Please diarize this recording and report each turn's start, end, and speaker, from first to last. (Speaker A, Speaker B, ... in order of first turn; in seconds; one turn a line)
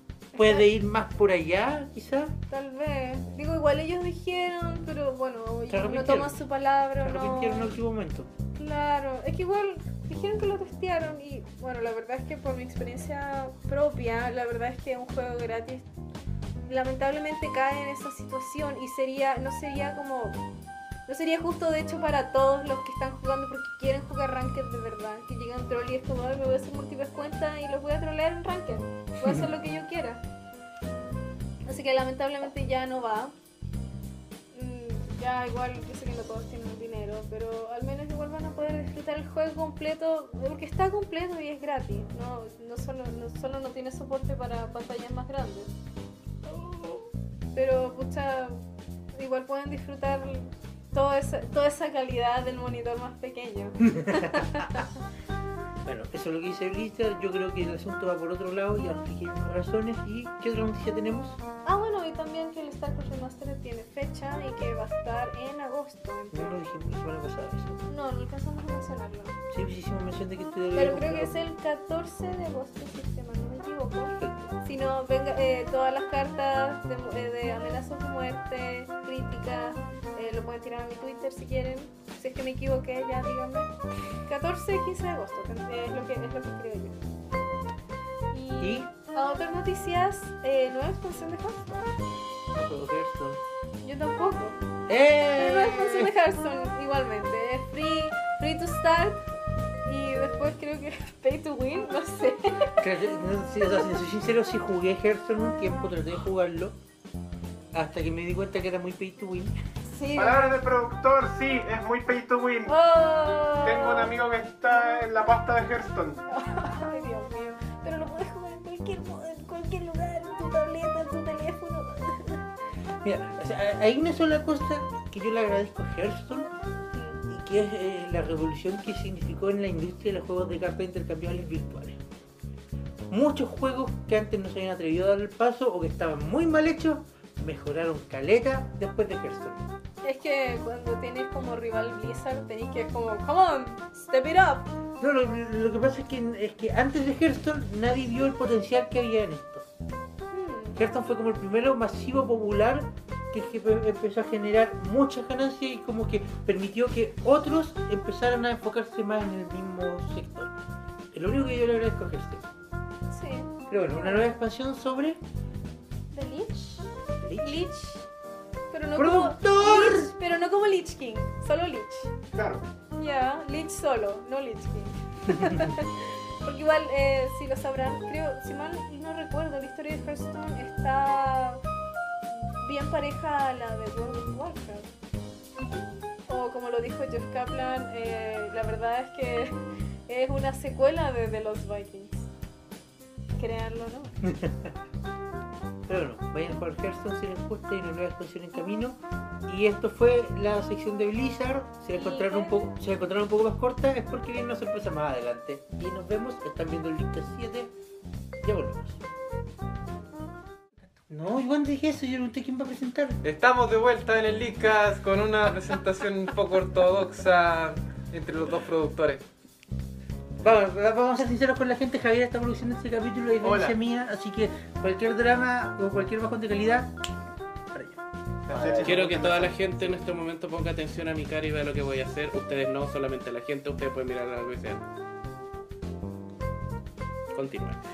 Speaker A: 0.3-2.3
Speaker B: 0.3-0.6
Speaker B: 2.5-7.8
Speaker A: 5.7-6.4
Speaker A: 7.0-8.3
Speaker B: 8.6-15.8
Speaker B: 16.7-20.4
Speaker B: 21.1-30.2
Speaker B: 31.6-33.3
Speaker B: 34.5-45.7
Speaker B: 46.4-48.6
Speaker B: 49.1-54.9
Speaker A: 53.8-54.8
Speaker A: 55.8-61.4
Speaker B: 61.6-66.6
Speaker A: 66.3-67.8
Speaker B: 67.9-69.3
Speaker A: 69.5-71.3
Speaker B: 70.7-83.7
Speaker A: 74.2-74.5
Speaker B: 84.2-87.0
Speaker B: 88.3-91.9
Speaker A: 88.6-88.9
Speaker A: 92.5-93.4
Speaker B: 93.8-94.6
Speaker A: 94.9-96.1
Speaker B: 95.3-99.2
Speaker B: 99.8-102.8
Speaker A: 102.8-106.8
Speaker A: 107.7-109.5
Speaker B: 109.8-110.6
Speaker C: 110.1-112.7
Speaker B: 112.7-114.1
Speaker C: 113.6-116.2
Speaker B: 116.3-122.5
Speaker A: 123.0-126.5
Speaker B: 126.9-127.2
Speaker A: 127.3-132.0
Speaker A: 133.1-139.7
Speaker B: 140.0-144.7
Speaker A: 145.0-149.7
Speaker B: 150.3-150.8
Speaker A: 150.8-160.5
Speaker A: 161.1-162.4
Speaker B: 163.1-164.3
Speaker A: 163.7-165.2
Speaker B: 166.1-168.1
Speaker A: 167.2-167.6
Speaker B: 168.7-172.1
Speaker A: 168.9-170.1
Speaker C: 172.3-172.7
Speaker B: 172.9-181.6
Speaker B: 182.3-184.9
Speaker B: 186.3-192.3
Speaker B: 193.4-194.1
Speaker A: 194.2-194.7
Speaker A: 195.9-207.7
Speaker B: 201.9-202.7
Speaker A: 208.4-209.0
Speaker A: 211.1-213.2
Speaker D: 213.2-219.2
Speaker A: 220.4-226.9
Speaker C: 223.4-223.8
Speaker A: 227.7-228.0
Speaker C: 228.4-229.6
Speaker D: 228.5-229.0
Speaker E: 228.8-234.8
Speaker E: 237.3-237.8